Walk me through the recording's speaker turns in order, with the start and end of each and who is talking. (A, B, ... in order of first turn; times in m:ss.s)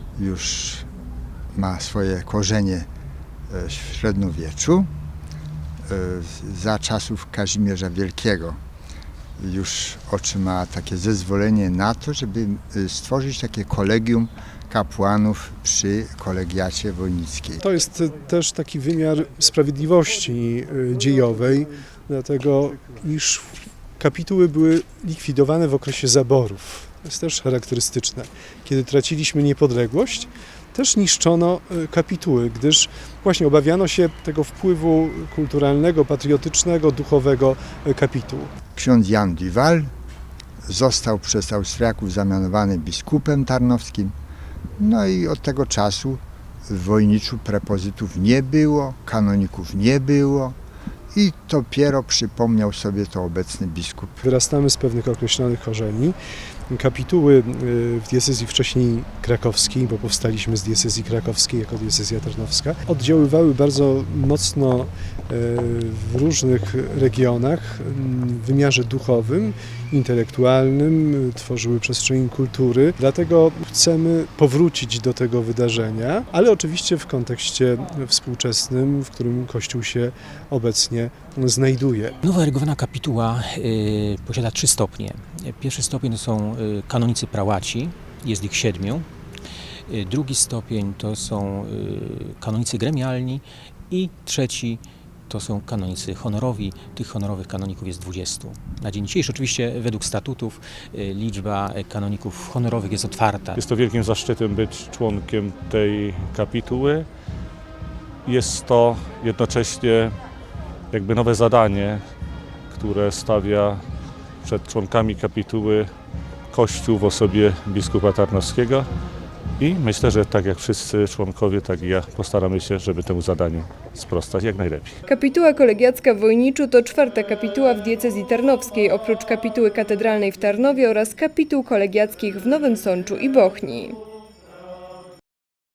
0:00.2-0:00.9 A
0:01.5-0:02.8 A
0:03.5-0:04.9 A
0:05.9-0:08.6 A
0:09.4-0:17.6 A
0:17.6-0:38.5 B
0:38.7-0:39.9 A
0:40.7-0:44.1 A
0:44.8-0:50.5 A
0:51.1-0:54.1 A
0:54.2-0:56.2 B
0:56.7-1:22.1 B
1:22.2-1:29.1 C
1:29.9-1:43.6 C
1:43.5-1:47.1 D
1:48.2-1:50.1 D
1:50.9-1:52.0 D
1:52.7-1:53.8 D
1:54.4-1:55.9 D
1:56.5-1:58.9 D
1:59.6-2:04.9 D
2:05.1-2:14.0 E